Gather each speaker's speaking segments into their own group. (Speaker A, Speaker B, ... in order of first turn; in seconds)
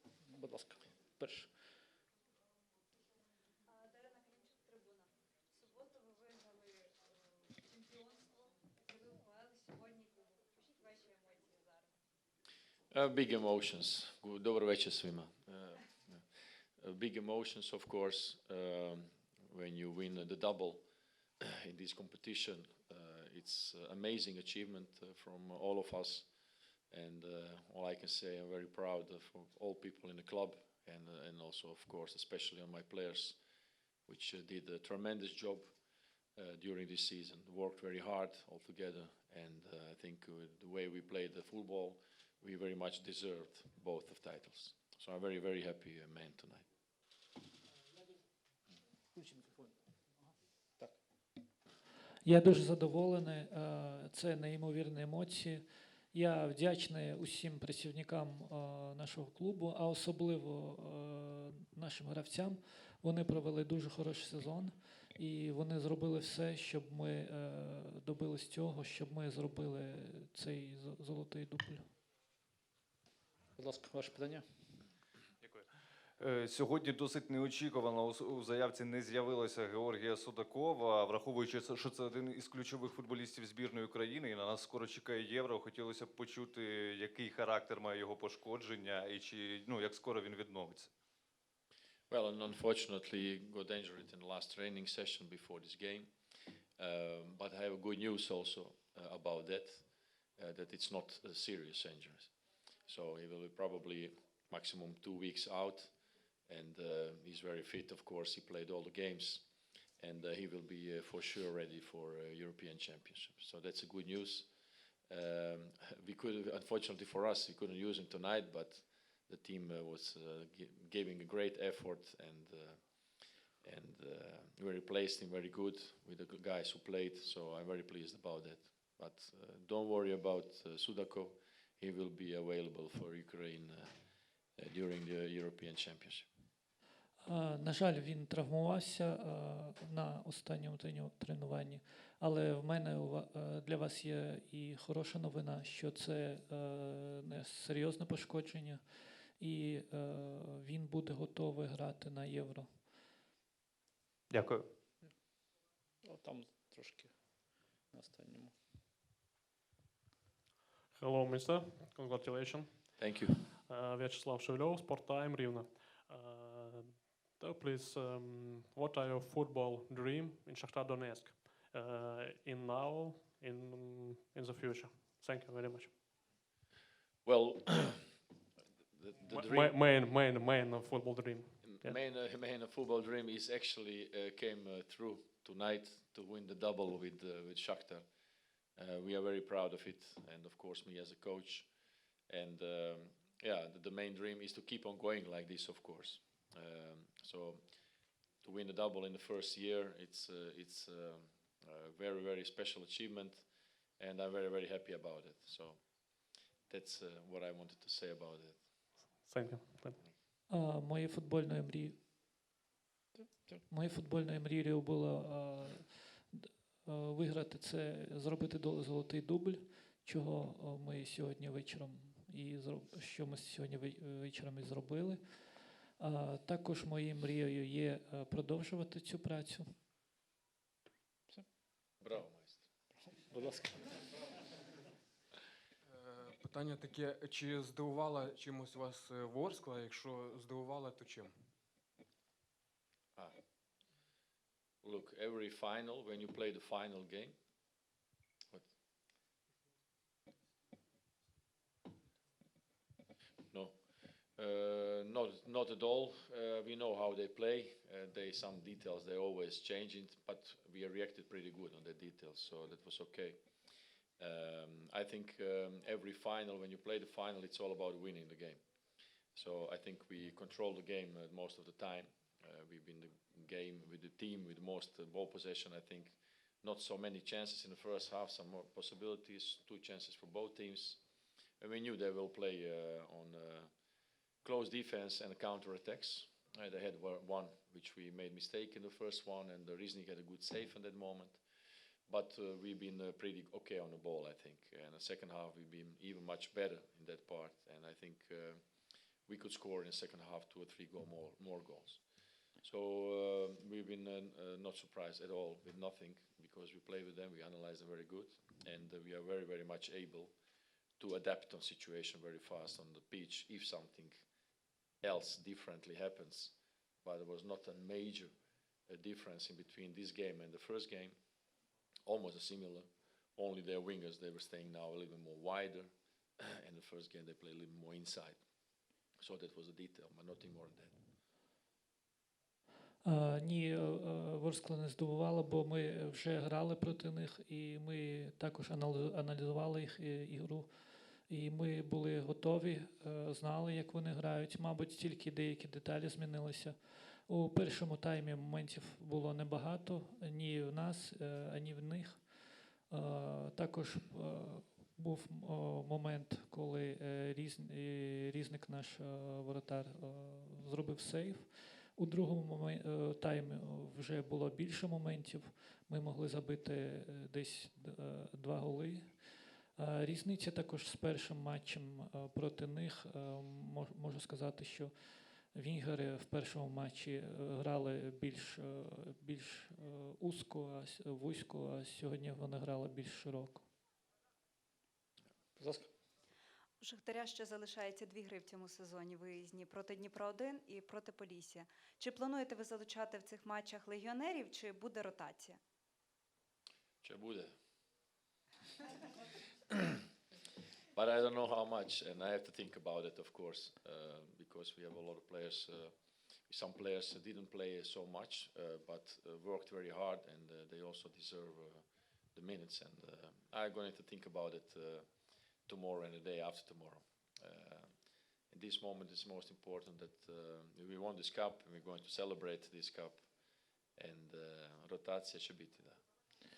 Speaker A: 0.2-1.8, 49.2-49.6, 73.6-74.5, 156.0-158.6, 213.2-213.7, 232.9-234.2, 385.6-385.9
Speaker B: 3.9-5.0, 5.6-6.8, 7.7-8.2, 8.9-11.8, 386.8-395.6
Speaker C: 12.9-20.9, 21.4-26.3, 26.9-33.4, 34.1-35.8, 36.4-46.6, 92.1-96.1, 96.8-106.0, 106.5-109.5, 110.0-114.5, 115.1-133.9, 134.6-136.3, 163.0-163.4, 177.2-178.2, 178.9-179.8, 181.6-188.1, 188.8-191.7, 192.3-197.6, 198.4-203.5, 204.0-209.1, 232.0-232.7, 244.8-247.3, 253.5-253.8, 254.3-263.4, 264.2-268.6, 269.3-281.0, 281.6-283.7, 284.4-291.4, 292.1-298.6, 299.2-302.0, 302.6-310.3, 311.0-314.2, 315.0-318.3, 318.9-321.2, 322.1-328.4, 329.1-330.9, 397.0-397.5, 400.9-405.9, 406.5-415.1, 415.6-418.0, 418.5-423.3, 423.9-426.0
Speaker D: 52.2-71.9, 137.2-152.9, 210.5-212.0, 213.7-229.7, 333.0-383.7
Speaker E: 76.2-90.9, 154.3-154.7
Speaker F: 160.9-175.9, 179.2-182.0, 209.1-210.0
Speaker G: 235.9-241.3